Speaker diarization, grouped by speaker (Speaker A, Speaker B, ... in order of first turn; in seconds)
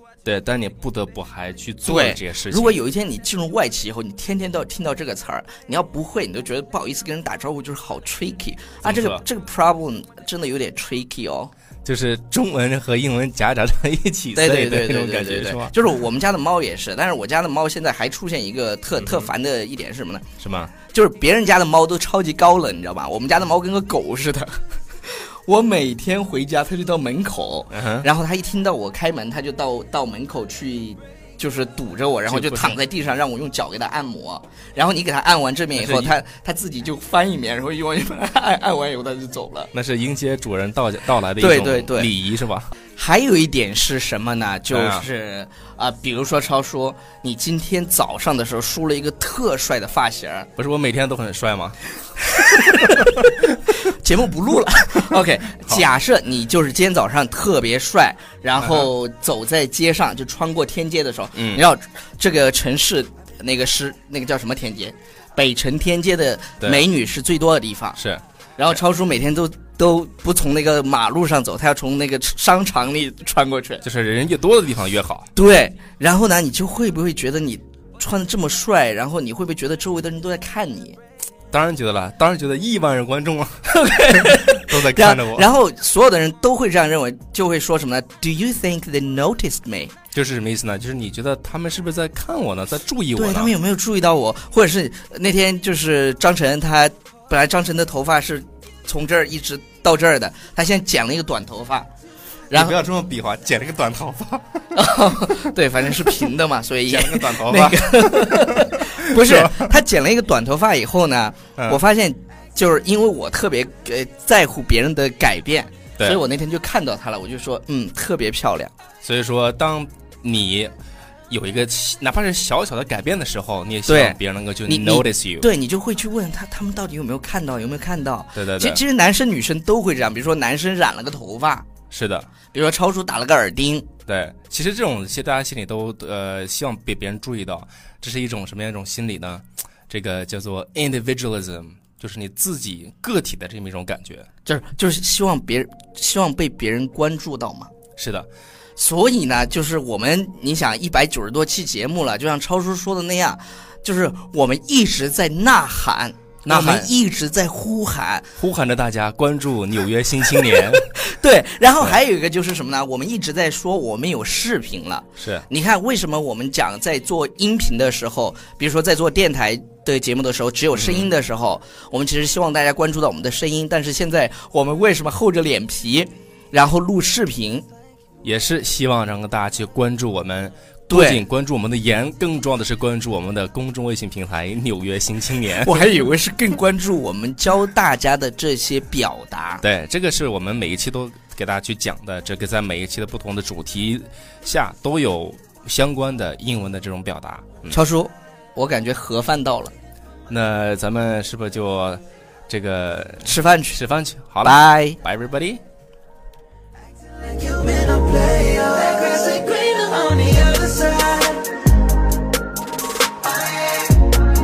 Speaker A: 0.2-2.8, 8.8-9.2, 11.8-15.7, 19.0-19.3, 20.4-20.7, 27.7-28.1, 32.3-32.8, 35.8-36.1, 39.7-42.7, 44.7-45.0, 50.5-51.8, 58.6-58.9, 61.4-61.6, 66.6-66.8, 68.0-68.2, 73.8-75.3, 81.5-85.5, 90.1-93.5, 102.5-105.4, 106.9-109.8, 119.0-120.7, 121.3-125.5, 128.3-128.8, 131.9-132.3, 134.1-144.3, 148.0-148.3, 156.4-156.9, 158.4-160.9, 165.2-165.4, 170.7-171.1, 178.2-185.9, 189.6-197.8, 200.3-205.6
Speaker B: 1.8-11.5, 14.3-20.2, 20.8-39.7, 41.4-42.1, 43.0-50.5, 52.3-68.0, 68.6-73.8, 75.3-81.0, 83.7-89.9, 93.1-101.9, 102.5-102.8, 104.8-118.7, 123.9-131.7, 132.5-133.9, 144.4-147.7, 148.8-158.3, 160.4-177.7, 180.9-181.2, 185.6-189.6, 197.7-199.7, 203.2-203.8, 204.4-205.0
Speaker C: 207.4-211.6